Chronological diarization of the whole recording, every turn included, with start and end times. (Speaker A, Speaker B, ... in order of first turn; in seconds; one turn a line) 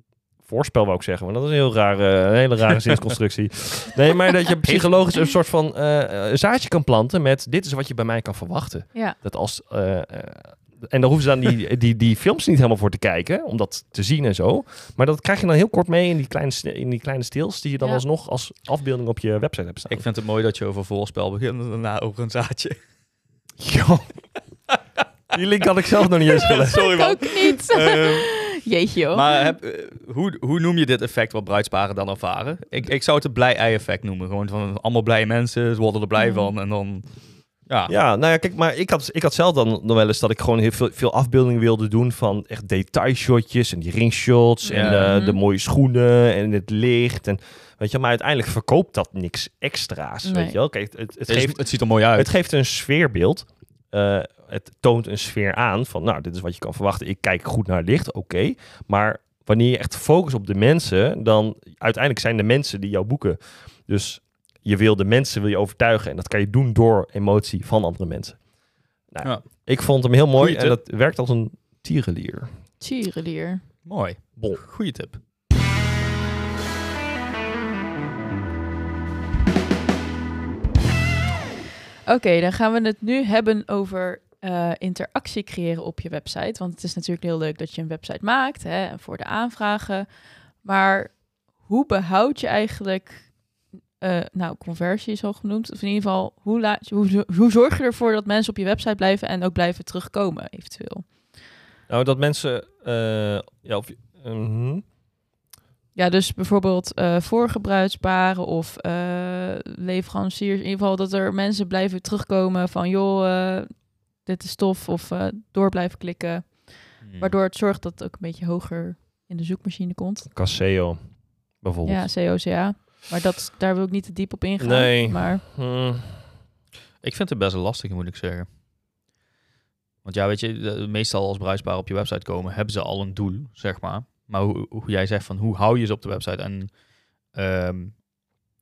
Speaker A: 0.4-20.1
Speaker B: 19.9-22.8
Speaker A: 23.6-24.3
Speaker A: 25.3-26.9
Speaker B: 26.4-28.5
Speaker C: 26.9-29.4
Speaker B: 29.1-37.9
Speaker C: 36.2-36.5
Speaker A: 37.9-68.5
Speaker C: 44.6-45.4
Speaker B: 44.7-45.0
Speaker C: 50.2-50.5
Speaker B: 51.3-52.3
Speaker A: 69.0-72.5
Speaker B: 69.2-70.8
Speaker C: 72.8-73.7
Speaker B: 73.8-75.2
Speaker A: 74.4-74.7
Speaker C: 82.0-101.4
Speaker A: 101.9-104.8
Speaker C: 105.9-120.3
Speaker B: 117.0-117.4
Speaker A: 120.3-122.1
Speaker C: 121.8-125.4
Speaker A: 124.6-126.4
Speaker B: 127.0-128.5
Speaker B: 130.0-138.0